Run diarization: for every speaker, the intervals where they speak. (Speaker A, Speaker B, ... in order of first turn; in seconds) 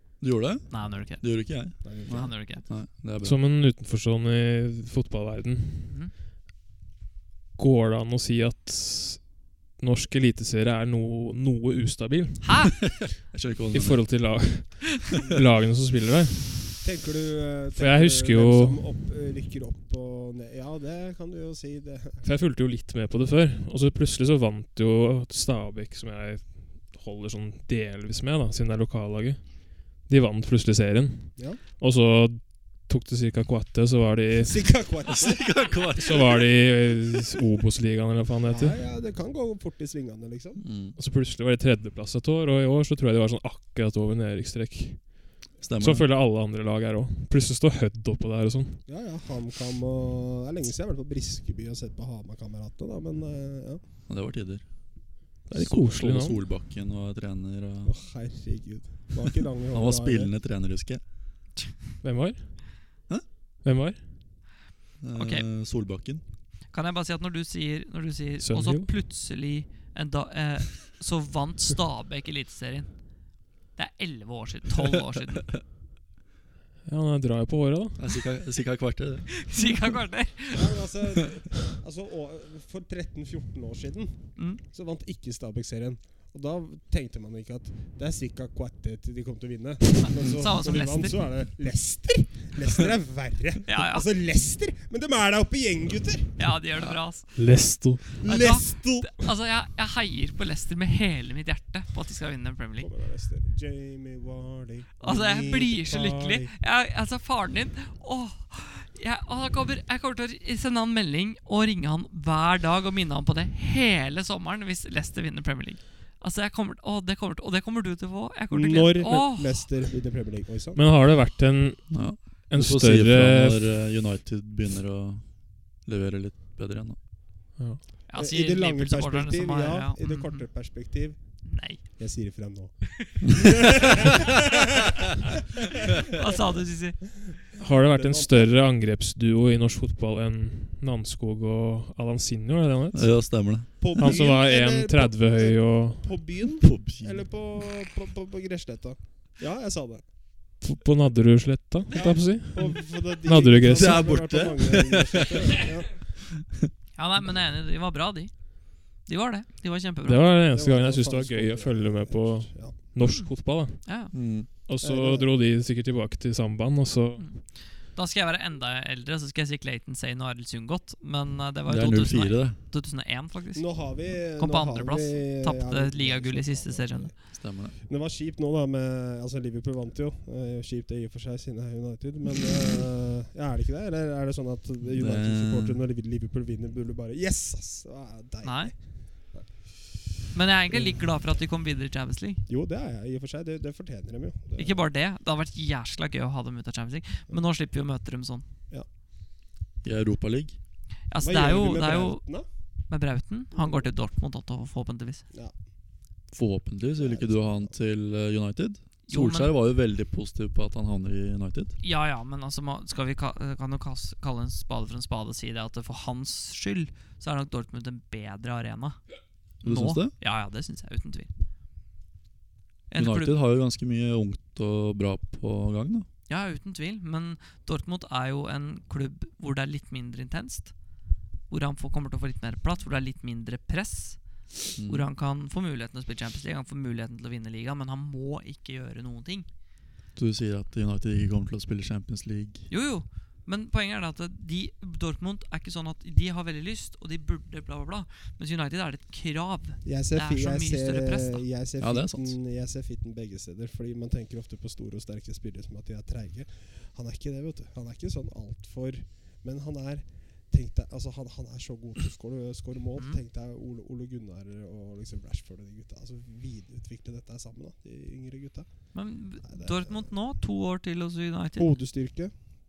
Speaker A: 0.2-3.4, 13.2-14.3, 35.1-36.5, 40.6-41.0, 45.6-46.1, 54.1-57.9, 59.7-61.0, 65.0-66.2, 78.0-79.7, 121.9-127.0, 142.9-144.2, 146.6-147.5, 153.7-155.6, 164.1-164.5, 171.7-172.6, 177.4-177.8, 184.8-185.8, 199.8-200.6, 206.3-211.7, 219.6-220.1, 223.0-226.1, 234.8-235.1, 240.2-242.7, 251.8-252.4
Speaker B: 0.7-1.5, 2.1-2.6, 5.8-6.1, 12.4-12.7, 65.2-65.5, 66.7-73.1, 73.8-75.6, 79.4-80.8, 90.1-91.2, 93.7-94.1, 96.4-97.4, 98.2-102.9, 105.0-119.9, 128.1-130.5, 131.4-132.0, 136.1-137.2, 157.0-160.3, 163.8-164.1, 167.2-177.2, 188.4-188.8, 190.3-192.4, 194.6-198.4, 201.1-205.3, 209.1-209.5, 211.8-219.0, 219.6-221.3, 222.9-223.3, 226.3-230.8, 231.5-239.5, 242.7-251.5, 268.9-271.7
Speaker C: 1.8-2.3, 16.8-22.2, 34.4-35.7, 38.5-40.6, 48.9-53.8, 57.9-60.3, 80.5-96.4, 98.2-99.2, 102.8-106.5, 118.5-120.8, 128.1-134.8, 137.9-138.5, 143.8-150.1, 151.9-156.1, 160.5-162.8, 164.8-165.3, 173.6-190.2, 192.5-194.8, 201.2-202.5, 203.5-203.9, 207.0-207.8, 249.8-270.2, 271.6-272.3
Speaker D: 3.2-5.9, 7.6-12.8, 13.7-16.8, 17.7-18.8, 22.2-34.7, 36.0-38.8, 41.0-48.9, 55.5-56.4, 62.0-62.8, 63.6-64.0, 68.4-68.9, 76.8-78.1, 97.4-98.1, 120.8-123.7, 127.6-127.8, 137.6-146.2, 150.6-154.2, 160.0-164.1, 164.7-167.3